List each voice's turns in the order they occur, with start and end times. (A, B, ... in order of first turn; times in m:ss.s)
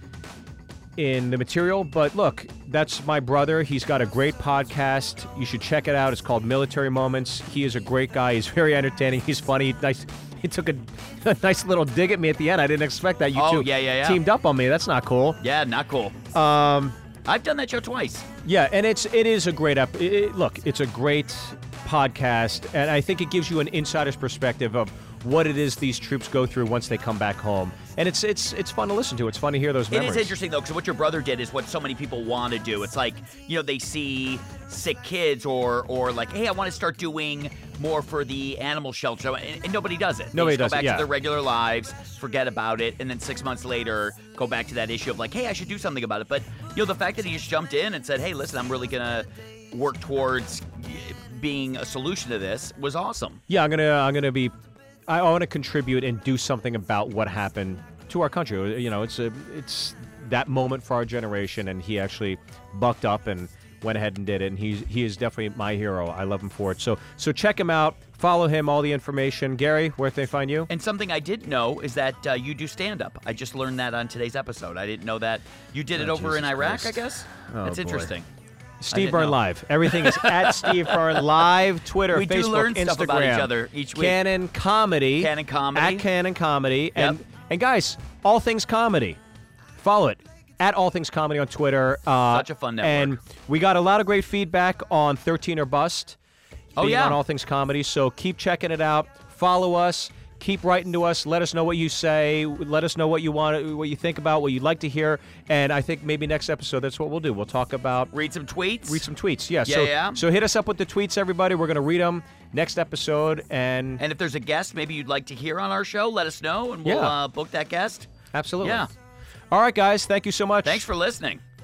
0:01.0-0:15.4 A
0:13.3-0:14.2 B
0:15.4-0:16.2 B
0:16.3-0:17.0 A
0:17.2-0:18.2 B
0:18.4-0:30.3 A
0:29.9-0:53.4 B
0:40.3-0:41.1 A
0:53.5-0:54.5 A
0:55.1-1:10.7 A
1:10.7-1:18.3 B
1:16.0-1:18.1 A
1:18.8-1:29.2 A
1:18.9-1:21.2 B
1:22.1-1:24.2 B
1:25.2-1:26.0 B
1:29.8-1:36.2 A
1:32.3-1:33.2 B
1:36.8-1:37.2 B
1:36.8-1:48.1 A
1:48.1-1:49.0 B
1:48.9-1:54.0 A
1:49.6-1:50.2 B
1:54.0-1:58.1 B
1:56.8-1:57.1 A
1:58.3-1:58.9 A
1:58.6-1:58.9 B
1:59.5-2:00.9 A
2:00.6-2:01.4 B